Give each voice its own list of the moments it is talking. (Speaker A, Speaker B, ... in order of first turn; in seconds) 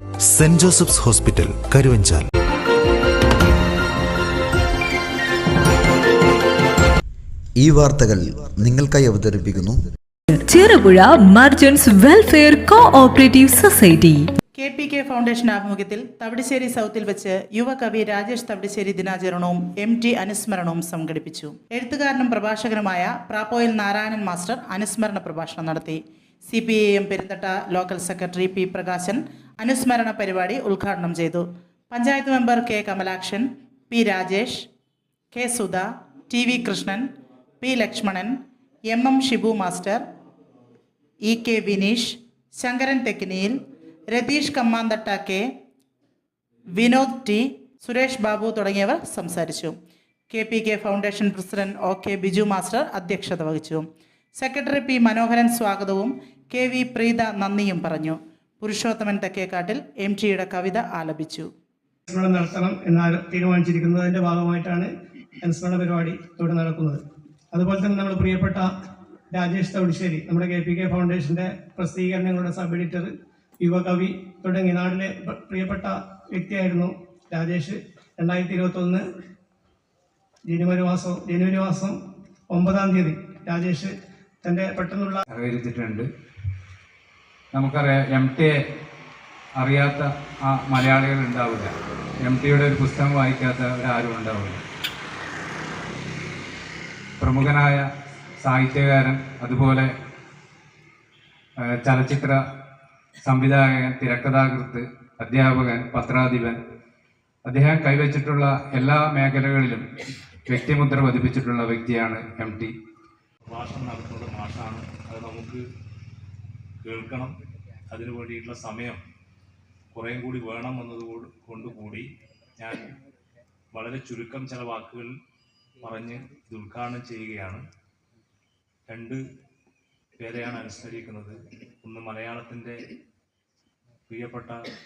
Speaker A: 0.3-2.3
Speaker B: 7.6-9.8
Speaker C: 10.3-14.3
Speaker D: 14.6-34.7, 35.3-37.1, 37.6-40.0, 41.2-43.6, 44.1-45.5, 46.8-49.8, 50.3-61.5
Speaker E: 62.1-64.9, 65.4-67.0, 67.5-68.7, 69.3-73.1, 73.6-79.0, 80.5-82.0, 82.5-83.9, 84.4-85.2
Speaker F: 85.3-86.1, 87.5-88.5, 89.6-91.7, 92.3-94.6, 97.2-97.8, 98.4-99.9, 101.8-102.4, 103.2-106.6, 107.5-109.8, 110.5-112.7
Speaker G: 113.5-115.6, 116.8-117.3, 117.9-119.0, 119.9-122.1, 122.6-122.9, 123.7-125.1, 125.8-127.6, 128.9-129.2, 130.2-132.8, 134.1-134.6